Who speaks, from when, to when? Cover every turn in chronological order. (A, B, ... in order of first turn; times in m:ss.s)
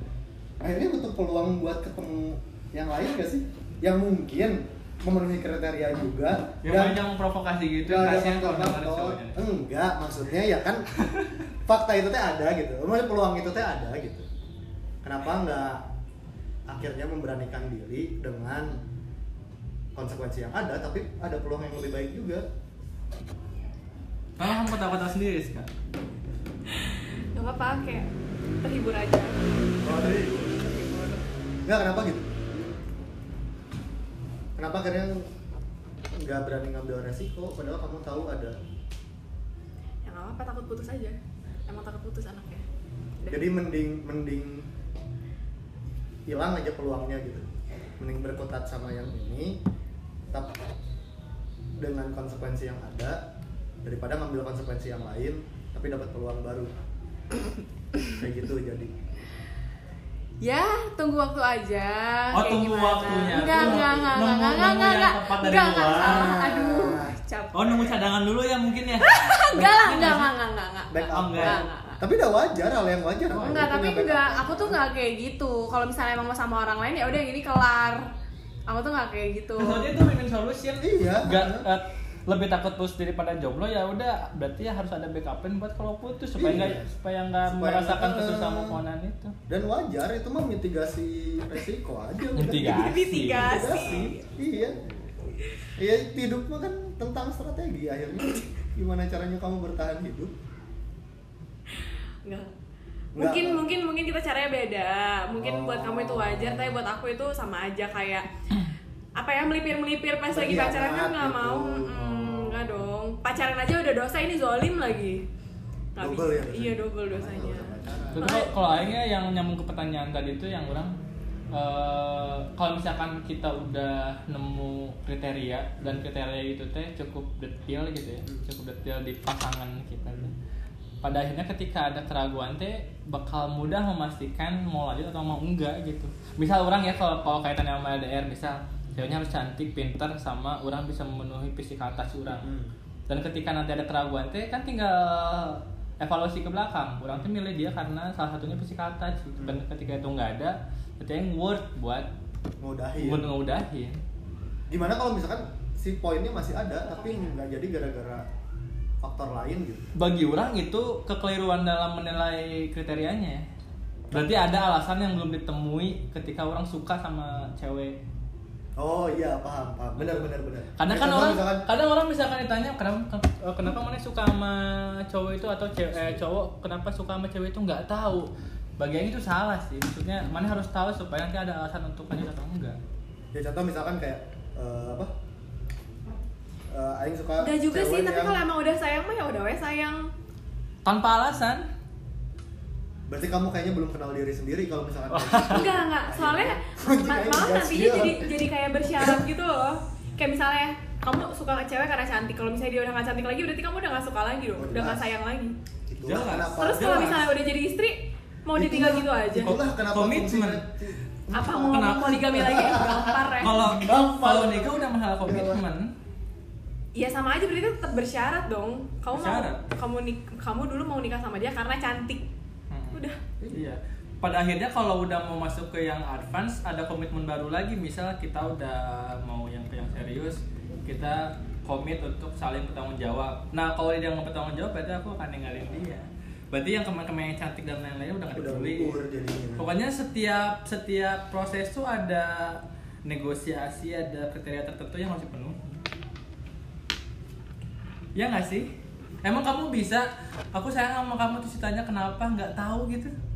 0:00.6-0:07.0 A
0:06.6-0:09.4 B
0:07.8-0:10.9 A
0:11.6-0:14.3 A
0:15.0-0:15.8 A
0:16.7-0:18.8 A
0:20.0-0:22.5 A
0:24.4-0:25.7 B
0:26.7-0:28.1 C
0:28.6-0:29.5 C
0:29.8-0:30.5 A
0:29.9-0:30.6 B
0:31.7-0:32.3 A
0:34.6-0:35.3 A
0:36.1-0:38.6 A
0:40.0-0:42.6 C
0:43.2-0:43.5 C
0:43.3-0:44.7 A
0:46.3-0:47.5 A
0:48.0-0:49.6 A
0:50.3-0:50.6 A
0:51.8-0:53.2 A
0:53.8-0:56.7 A
0:58.1-0:58.9 A
1:00.4-1:07.9 C
1:02.3-1:06.4 B
1:03.2-1:04.2 A
1:05.9-1:07.2 A
1:07.5-1:10.3 B
1:09.0-1:12.0 C
1:10.9-1:14.8 A
1:11.1-1:11.6 B
1:13.3-1:18.1 C
1:18.7-1:19.9 C
1:19.6-1:29.4 B
1:20.8-1:21.7 A
1:26.4-1:26.9 A
1:27.5-1:28.8 A
1:29.5-1:34.9 A
1:32.4-1:33.6 B
1:32.6-1:34.3 C
1:35.8-1:40.3 A
1:42.2-1:42.5 C
1:43.2-1:43.7 A
1:43.2-1:48.3 C
1:45.4-1:46.8 A
1:49.2-1:55.2 C
1:50.3-1:52.9 A
1:56.0-1:58.5 C
1:56.0-1:58.3 A
1:58.2-2:01.0 B
2:01.5-2:10.3 B
2:11.0-2:22.5 B
2:22.4-2:22.7 A
2:23.1-2:32.1 B
2:29.4-2:29.6 A
2:32.6-2:33.3 A
2:33.0-2:34.0 B
2:34.7-2:38.2 A
2:36.9-2:37.3 C
2:39.0-2:39.9 A
2:40.0-2:43.4 B
2:44.1-2:48.0 B
2:48.8-2:51.7 A
2:50.8-3:02.8 B
3:03.3-3:05.1 A
3:06.7-3:08.4 A
3:07.4-3:10.1 C
3:10.8-3:11.6 B
3:13.1-3:18.3 A
3:15.1-3:15.6 B
3:15.5-3:25.6 C
3:24.6-3:25.1 A
3:25.9-3:27.2 A
3:26.0-3:27.3 B
3:26.6-3:29.6 C
3:28.6-3:35.6 A
3:29.4-3:30.6 B
3:31.3-3:33.7 C
3:31.6-3:32.2 B
3:33.4-3:35.9 B
3:37.0-3:42.3 C
3:39.1-3:39.6 B
3:42.7-3:59.0 B
3:42.9-3:43.2 C
3:58.3-3:59.7 A
3:59.6-4:05.8 B
4:08.2-4:08.7 B
4:09.2-4:13.1 B